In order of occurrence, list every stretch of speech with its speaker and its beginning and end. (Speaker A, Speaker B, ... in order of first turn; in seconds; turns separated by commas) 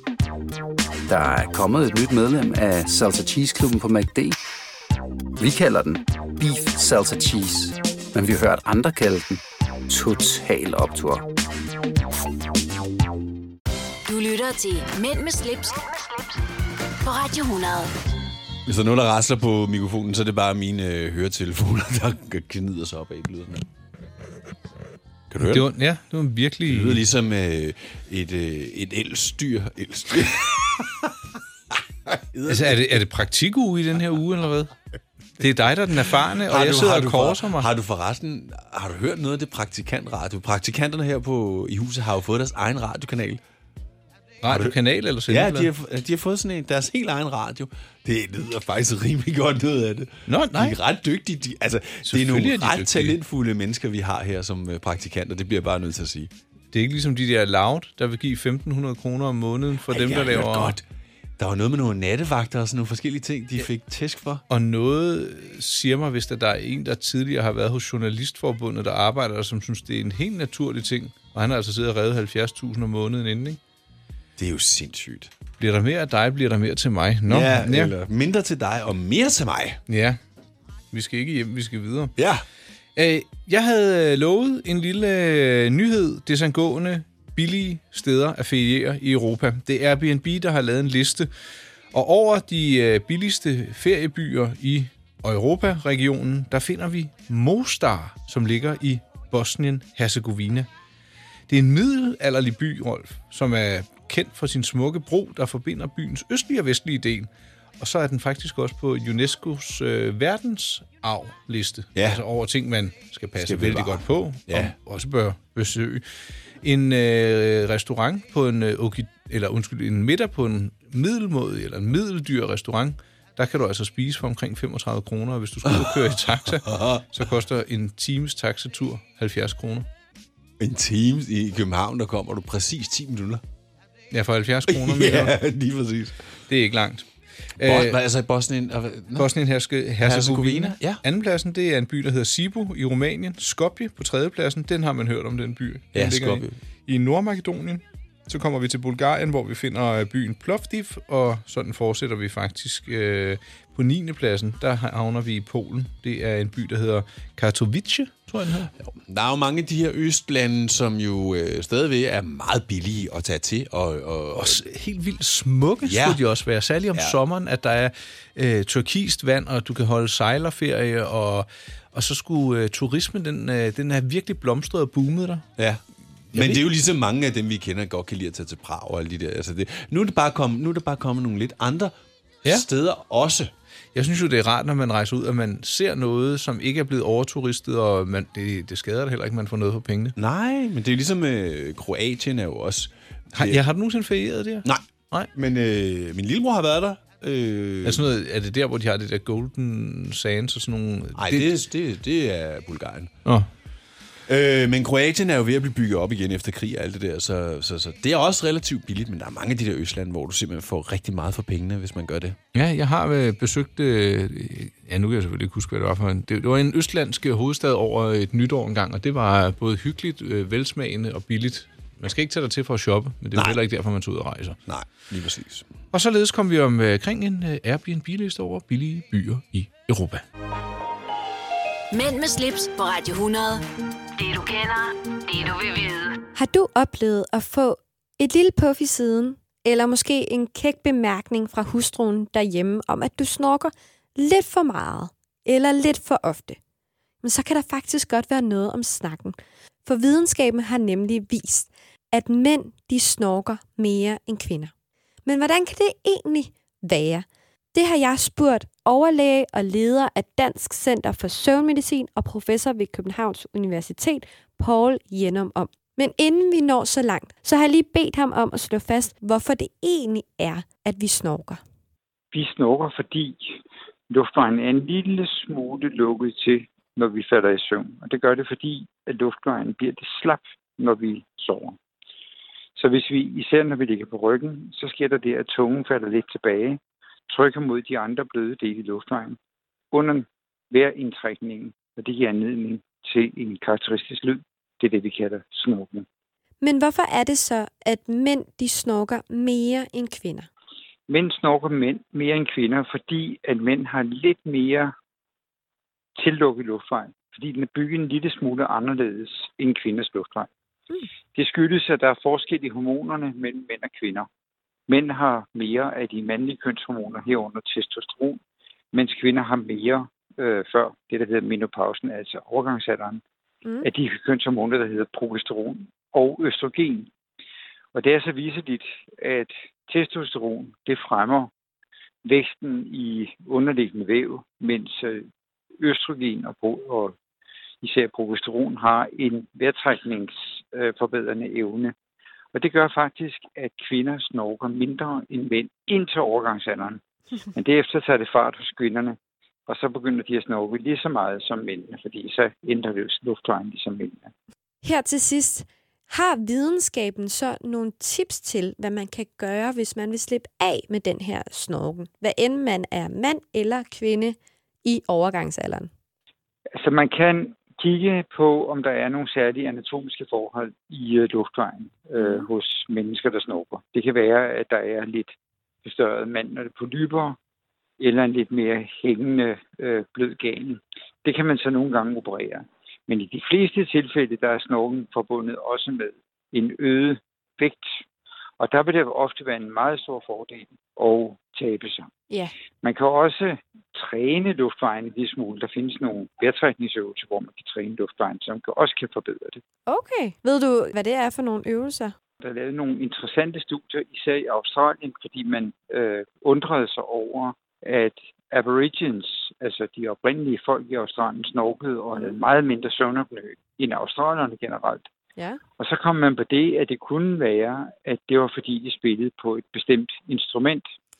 Speaker A: 1.1-4.4, Speaker A: 5.4-11.2, Speaker B: 14.1-15.9, Speaker B: 17.0-17.9, Speaker C: 18.6-23.6, Speaker C: 25.3-25.7, Speaker D: 25.4-27.1, Speaker C: 26.7-31.1, Speaker C: 32.1-33.0, Speaker D: 32.5-34.7, Speaker D: 35.4-37.7, Speaker C: 36.4-43.4, Speaker D: 44.4-45.7, Speaker C: 44.5-44.8, Speaker C: 45.3-56.3, Speaker D: 50.3-50.8, Speaker D: 52.0-53.2, Speaker D: 56.7-60.8, Speaker C: 59.9-60.8, Speaker C: 61.4-64.4, Speaker D: 64.5-73.6, Speaker C: 74.4-75.3, Speaker D: 75.6-77.9, Speaker C: 77.3-79.8, Speaker D: 79.9-80.2, Speaker D: 80.9-82.1, Speaker C: 82.2-82.4, Speaker D: 83.0-91.3, Speaker D: 91.9-100.7, Speaker D: 101.5-107.3, Speaker D: 107.8-116.0, Speaker C: 112.0-112.2, Speaker C: 113.4-114.8, Speaker D: 116.6-129.9, Speaker C: 125.7-127.1, Speaker C: 130.6-133.4, Speaker D: 134.1-135.4, Speaker C: 134.7-136.2, Speaker D: 136.5-137.1, Speaker D: 137.6-138.0, Speaker C: 137.6-139.3, Speaker D: 139.2-158.7, Speaker C: 140.0-141.0, Speaker C: 145.9-146.5, Speaker C: 158.8-164.6, Speaker D: 164.3-175.5, Speaker C: 165.8-166.2, Speaker D: 176.3-176.6, Speaker C: 176.3-181.9, Speaker C: 182.4-183.5, Speaker D: 183.9-190.2, Speaker C: 190.2-193.6, Speaker D: 193.3-195.3, Speaker C: 194.7-198.1, Speaker D: 197.8-201.6, Speaker C: 201.2-203.1, Speaker C: 204.3-212.4, Speaker D: 212.5-224.6, Speaker C: 224.7-225.7, Speaker D: 225.9-230.2, Speaker B: 231.9-233.6, Speaker B: 234.2-236.2, Speaker E: 236.3-246.6, Speaker E: 247.2-254.7, Speaker E: 255.2-271.6, Speaker F: 272.3-281.8, Speaker F: 282.8-289.4, Speaker F: 289.9-296.1, Speaker E: 296.6-300.5, Speaker F: 301.1-304.9, Speaker F: 306.2-310.5, Speaker F: 311.3-314.3, Speaker F: 314.9-318.4, Speaker F: 318.9-323.2, Speaker F: 323.8-327.1, Speaker F: 327.9-331.5, Speaker F: 332.2-335.3, Speaker F: 335.8-337.1, Speaker F: 337.8-341.9, Speaker F: 342.5-347.0, Speaker F: 347.5-354.3, Speaker E: 354.8-365.9, Speaker F: 366.8-375.3, Speaker E: 372.2-372.5, Speaker F: 375.8-377.4, Speaker F: 378.0-387.9, Speaker F: 388.6-392.1, Speaker F: 392.8-399.6, Speaker E: 399.9-402.1, Speaker F: 402.4-415.1, Speaker F: 415.8-420.9